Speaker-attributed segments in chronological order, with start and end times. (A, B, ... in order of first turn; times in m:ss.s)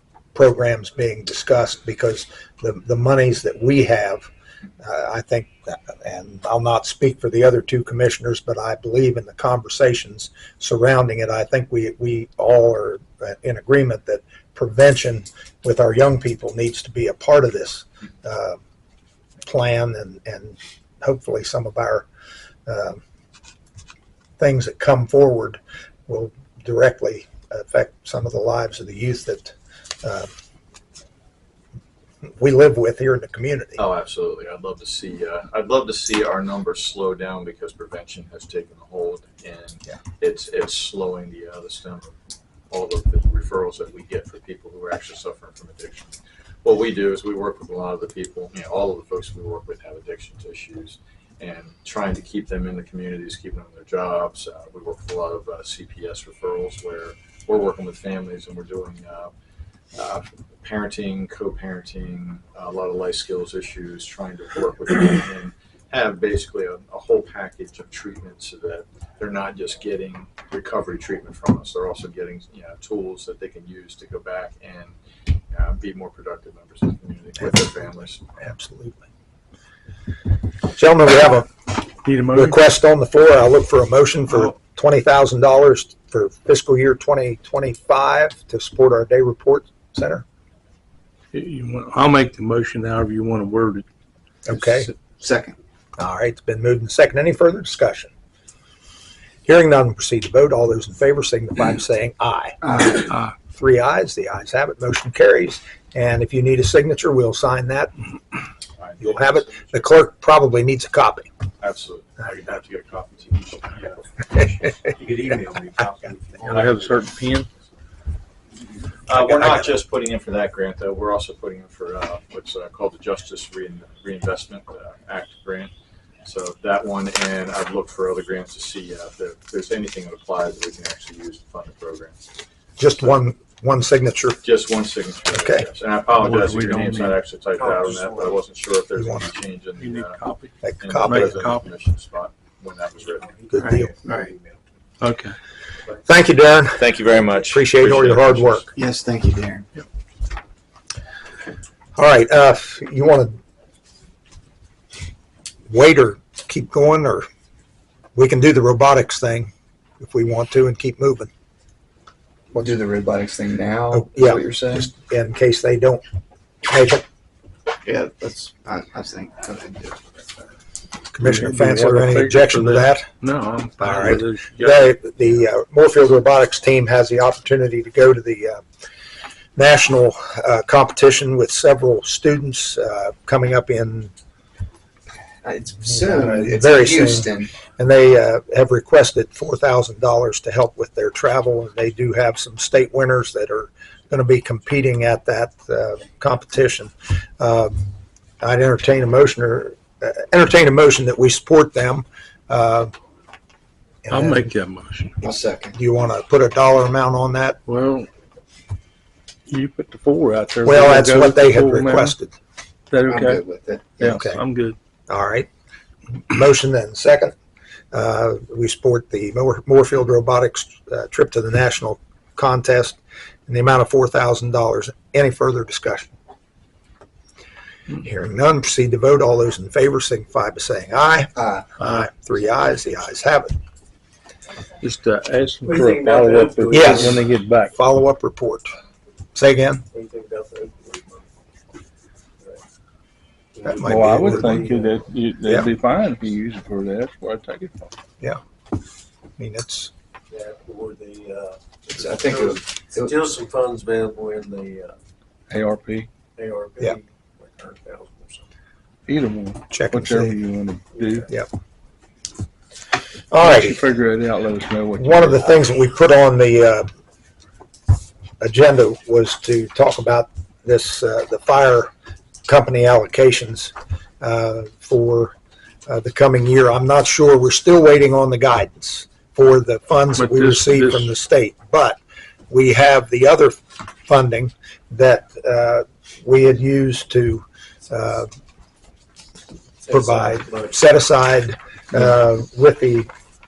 0:00.3-0:04.3 A
0:04.8-0:18.6 A
0:19.4-0:22.0 A
0:22.7-0:23.0 A
0:24.4-0:30.3 A
0:32.2-0:33.8 A
0:33.8-0:42.1 B
0:42.7-0:59.3 B
0:59.9-1:14.9 B
1:15.5-1:18.2 B
1:18.4-1:19.1 A
1:20.7-1:21.5 A
1:22.0-1:22.6 C
1:22.3-1:30.2 A
1:31.3-1:33.8 C
1:34.4-1:34.9 A
1:34.5-1:35.6 D
1:36.0-1:38.1 A
1:39.4-1:42.9 A
1:42.6-1:43.1 D
1:43.5-1:47.9 A
1:48.8-1:50.0 B
1:49.0-1:51.3 A
1:51.6-1:54.8 B
1:54.8-1:57.1 E
1:56.4-1:57.5 C
1:59.1-2:05.7 B
1:59.2-1:59.6 A
2:06.2-2:12.2 B
2:12.8-2:14.4 A
2:14.4-2:20.2 B
2:15.3-2:15.6 A
2:16.2-2:17.2 C
2:17.6-2:18.4 E
2:19.0-2:19.3 A
2:19.8-2:21.7 C
2:20.6-2:21.3 A
2:20.8-2:23.3 B
2:23.2-2:24.6 E
2:23.5-2:23.9 A
2:23.6-2:24.3 D
2:25.0-2:25.4 C
2:26.0-2:28.7 A
2:26.8-2:28.7 B
2:28.8-2:29.7 D
2:32.0-2:33.4 A
2:35.7-2:37.3 A
2:38.1-2:41.3 A
2:42.5-2:44.9 D
2:43.9-2:46.0 A
2:46.7-2:47.0 A
2:47.8-2:50.0 D
2:51.1-2:53.1 A
2:51.2-2:54.9 C
2:53.8-2:58.6 A
2:59.6-3:04.1 A
3:05.4-3:07.5 D
3:05.9-3:17.8 A
3:18.4-3:22.9 A
3:24.0-3:24.5 A
3:24.1-3:25.2 C
3:25.2-3:25.8 D
3:25.8-3:27.6 A
3:27.6-3:28.1 C
3:29.5-3:32.1 C
3:30.6-3:32.3 A
3:32.9-3:33.4 C
3:33.0-3:34.2 D
3:34.0-3:34.8 C
3:34.1-3:34.4 A
3:35.1-3:35.5 A
3:36.3-3:37.3 A
3:37.9-3:46.1 A
3:47.9-3:53.6 A
3:51.4-3:51.6 D
3:54.8-3:57.7 C
3:55.6-3:57.2 E
3:56.7-3:58.7 A
3:59.3-3:59.8 A
3:59.9-4:01.3 E
4:03.5-4:05.1 E
4:03.7-4:04.7 A
4:03.8-4:07.9 C
4:09.4-4:09.9 A
4:10.3-4:15.0 E
4:11.9-4:13.2 D
4:15.5-4:16.1 C
4:16.4-4:18.5 E
4:19.1-4:21.3 C
4:19.7-4:20.3 A
4:20.9-4:21.3 E
4:23.3-4:23.8 A
4:23.4-4:25.5 C
4:25.0-4:26.9 A
4:28.4-4:31.9 A
4:32.4-4:35.3 A
4:35.9-4:42.0 A
4:40.2-4:41.1 C
4:42.5-4:48.3 A
4:49.8-4:50.7 E
4:49.9-4:53.1 A